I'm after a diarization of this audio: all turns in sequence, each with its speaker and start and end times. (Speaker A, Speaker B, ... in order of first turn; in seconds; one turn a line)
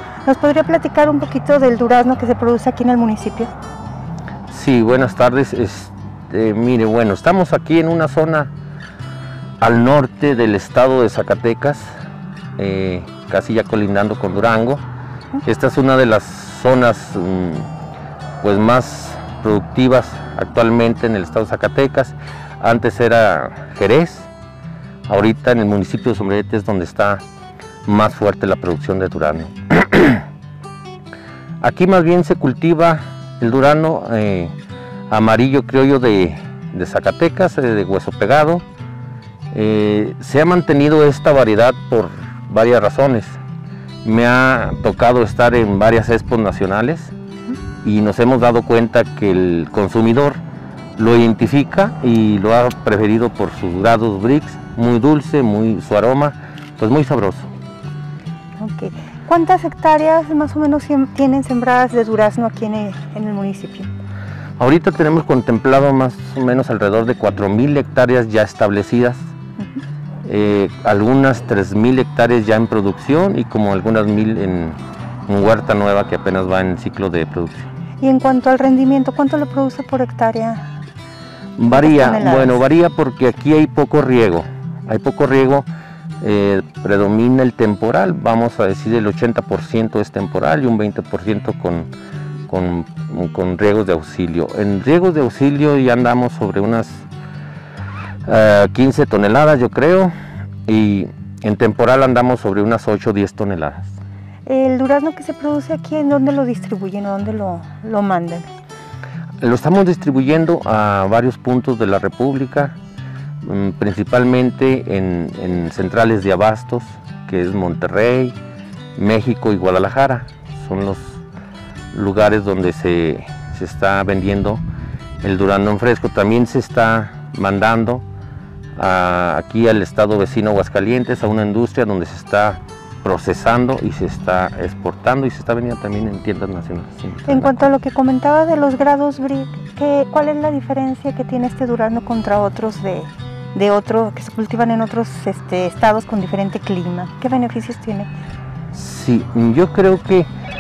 Speaker A: 0.2-3.5
Speaker B: 4.5-8.5
Speaker B: 9.6-11.9
Speaker B: 12.6-14.8
Speaker B: 15.4-17.7
Speaker B: 18.4-24.3
Speaker B: 25.1-27.2
Speaker B: 27.9-30.2
Speaker B: 31.6-34.5
Speaker B: 35.1-38.6
Speaker B: 39.5-43.4
Speaker B: 44.0-47.1
Speaker B: 47.8-50.4
Speaker B: 51.0-57.5
Speaker A: 58.6-63.9
Speaker B: 64.6-69.3
Speaker B: 70.2-77.7
Speaker A: 78.0-80.7
Speaker B: 81.6-85.7
Speaker A: 81.7-82.6
Speaker B: 86.2-91.9
Speaker B: 92.5-97.1
Speaker B: 98.3-100.1
Speaker B: 100.7-103.9
Speaker A: 104.5-108.5
Speaker B: 109.4-112.8
Speaker B: 113.4-118.3
Speaker B: 119.0-121.2
Speaker B: 121.9-124.6
Speaker B: 125.2-128.0
Speaker B: 128.8-137.6
Speaker A: 137.3-148.1
Speaker B: 148.7-150.3